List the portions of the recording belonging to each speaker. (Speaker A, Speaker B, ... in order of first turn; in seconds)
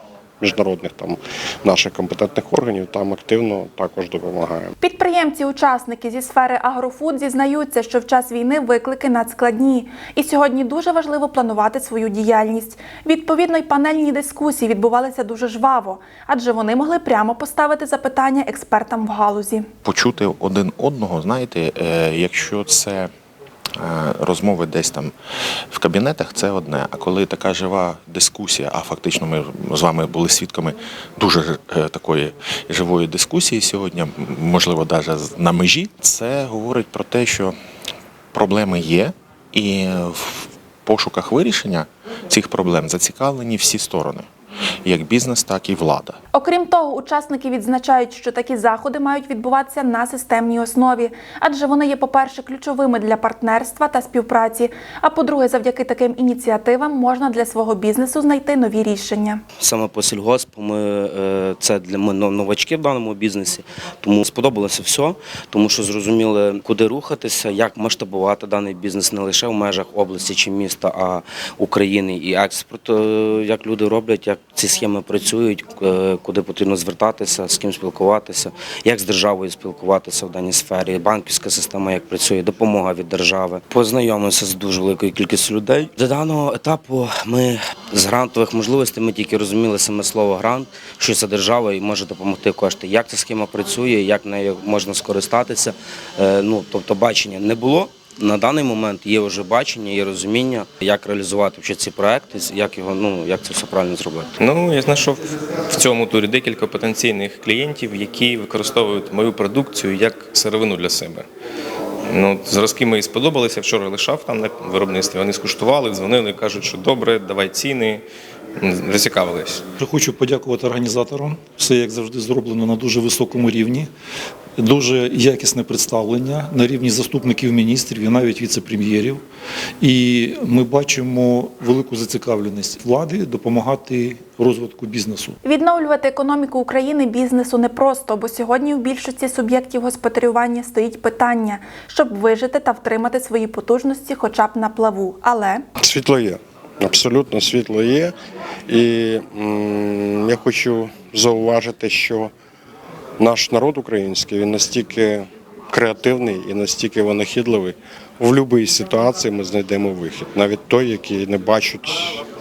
Speaker A: 0.4-4.7, 145.8-148.1, 148.7-152.3, 153.2-162.2
Speaker B: 4.8-19.7, 46.3-59.4, 135.4-145.6
Speaker C: 19.8-23.1, 23.8-25.1, 25.7-37.5, 38.3-44.2, 44.8-46.2
Speaker D: 59.6-104.3
Speaker E: 104.4-111.2, 112.1-118.0, 118.6-119.7
Speaker F: 119.8-123.9, 124.6-129.2, 129.8-135.3